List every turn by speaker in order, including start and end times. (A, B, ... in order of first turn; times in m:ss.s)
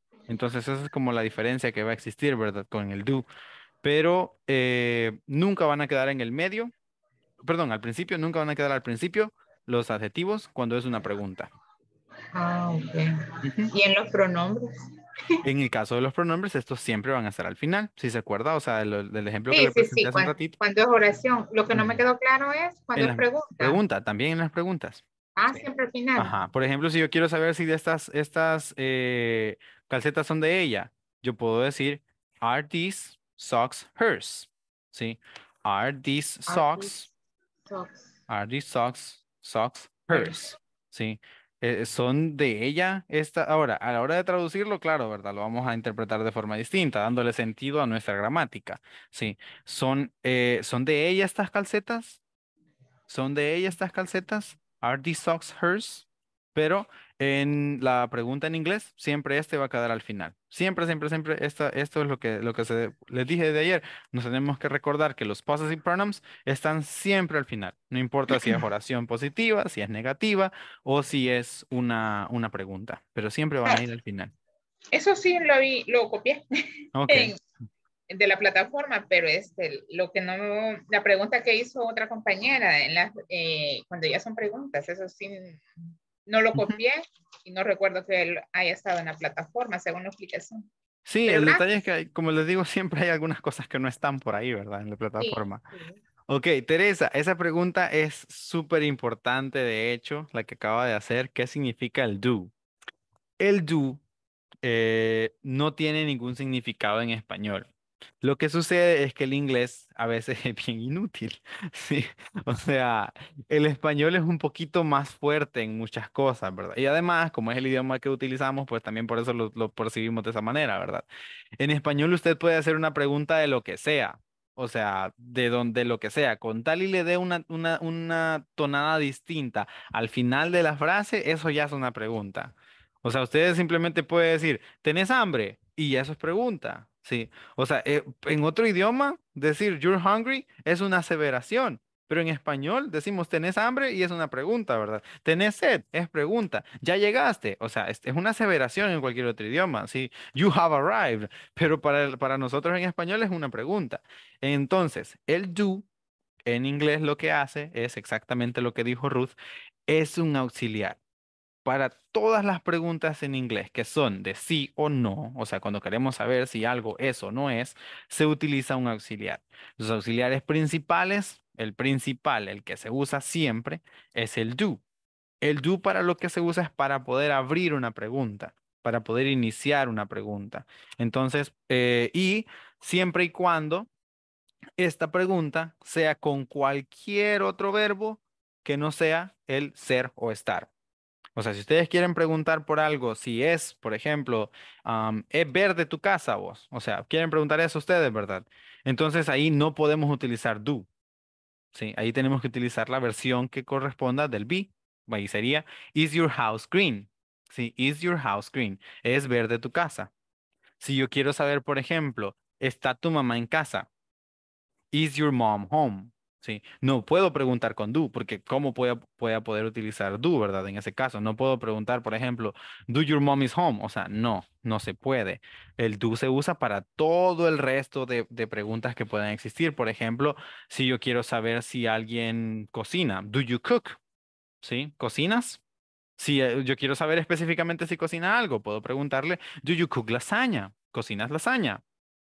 0:00.3-0:03.3 A
0:03.8-0:06.7 A
0:07.4-0:11.5 A
0:12.3-0:14.7 B
0:13.4-0:13.7 A
0:15.4-0:20.6 A
0:19.5-0:23.8 B
0:21.7-0:22.0 A
0:23.0-0:25.6 A
0:25.4-0:26.3 B
0:26.2-0:37.1 A
0:36.5-0:37.0 B
0:37.7-0:38.1 B
0:38.3-0:52.2 A
0:40.1-0:40.4 B
0:53.1-1:14.3 A
1:14.9-1:16.4 B
1:17.0-1:17.3 A
1:17.1-1:17.4 B
1:18.1-1:25.6 B
1:26.3-1:30.7 B
1:31.1-1:35.6 A
1:31.2-1:31.7 B
1:35.2-1:36.0 B
1:36.3-1:42.5 A
1:43.4-1:44.0 A
1:44.6-1:47.7 A
1:48.2-2:01.0 A
2:01.6-2:35.8 A
2:36.5-2:39.4 A
2:39.9-2:41.0 A
2:41.6-2:54.8 A
2:55.4-3:03.9 A
3:04.8-3:10.7 A
3:11.4-3:20.9 A
3:21.7-3:30.1 A
3:30.8-3:33.9 A
3:34.9-3:54.0 A
3:54.6-3:55.6 A
3:56.2-4:01.8 A